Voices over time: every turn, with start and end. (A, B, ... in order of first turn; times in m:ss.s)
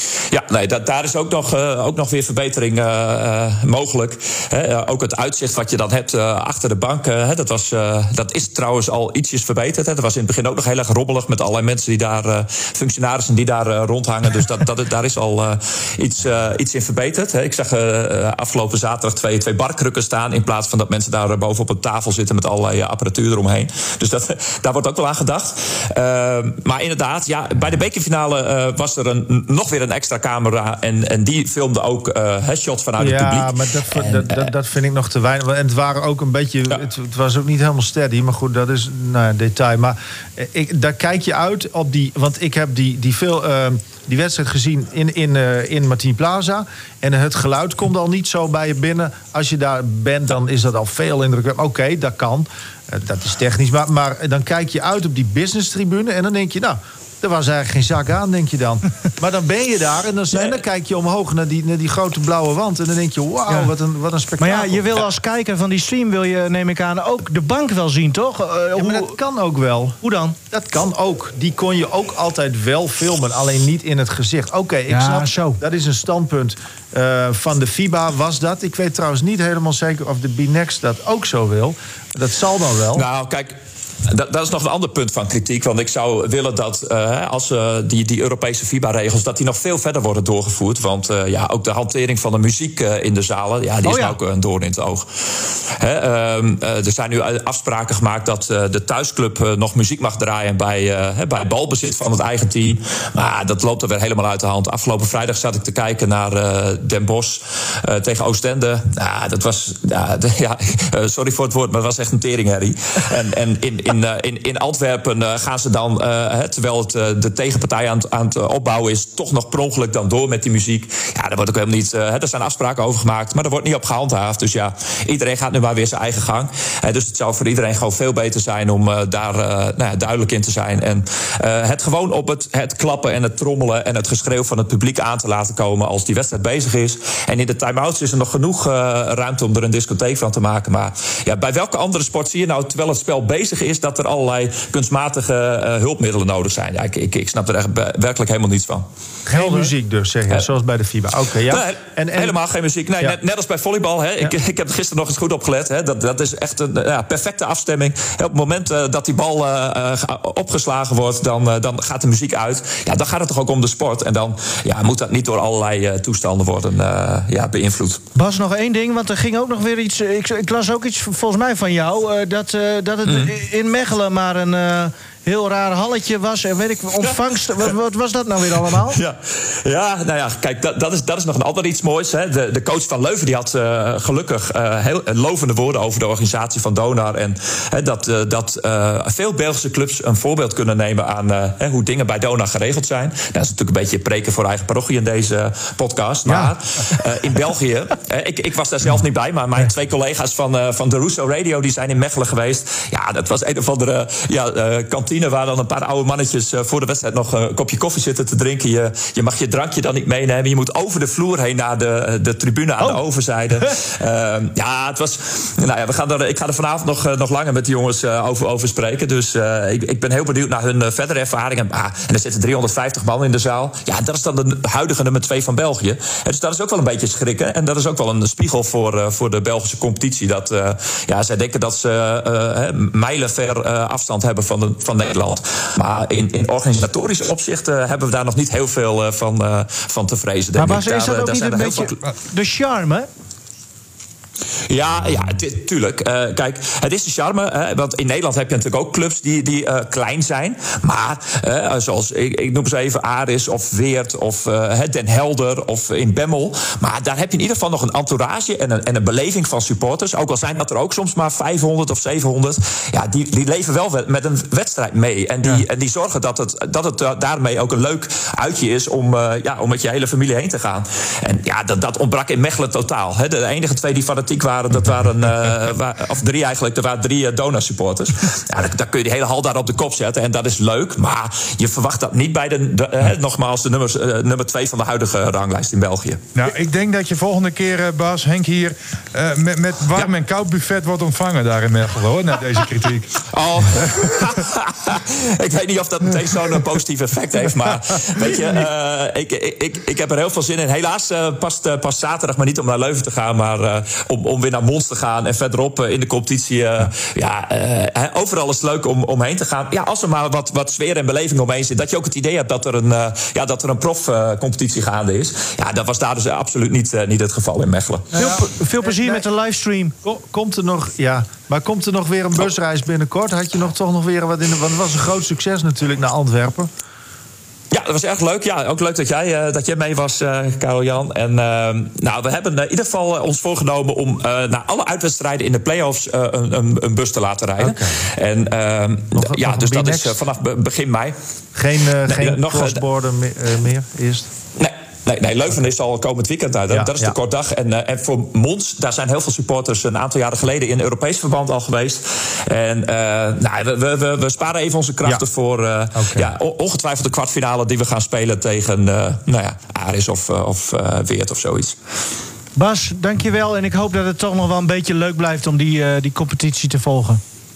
0:00.3-0:34.5 A
0:33.0-1:05.1 B
1:04.4-1:09.2 C
1:08.7-1:10.0 B
1:10.0-1:10.4 C
1:10.5-1:23.0 B
1:14.9-1:15.6 C
1:22.9-1:35.1 A
1:33.8-1:34.2 C
1:35.7-2:28.9 A
2:29.3-2:32.4 B
2:29.3-2:29.7 C
2:31.5-2:48.0 A
2:48.2-2:59.0 C
2:53.1-2:53.4 A
2:58.8-4:02.0 A
3:16.3-3:17.0 C
4:00.6-4:03.1 C
4:04.7-4:46.2 A
4:46.4-4:54.1 D
4:53.3-5:18.1 A
5:18.1-5:19.2 B
5:18.2-5:19.9 C
5:20.0-5:26.7 B
5:27.7-5:41.2 A
5:37.6-5:38.0 B
5:39.2-5:40.2 B
5:41.6-5:44.3 B
5:42.0-5:42.8 A
5:44.6-6:01.8 A
5:46.7-5:47.2 B
5:56.0-5:56.3 B
6:02.6-6:07.2 C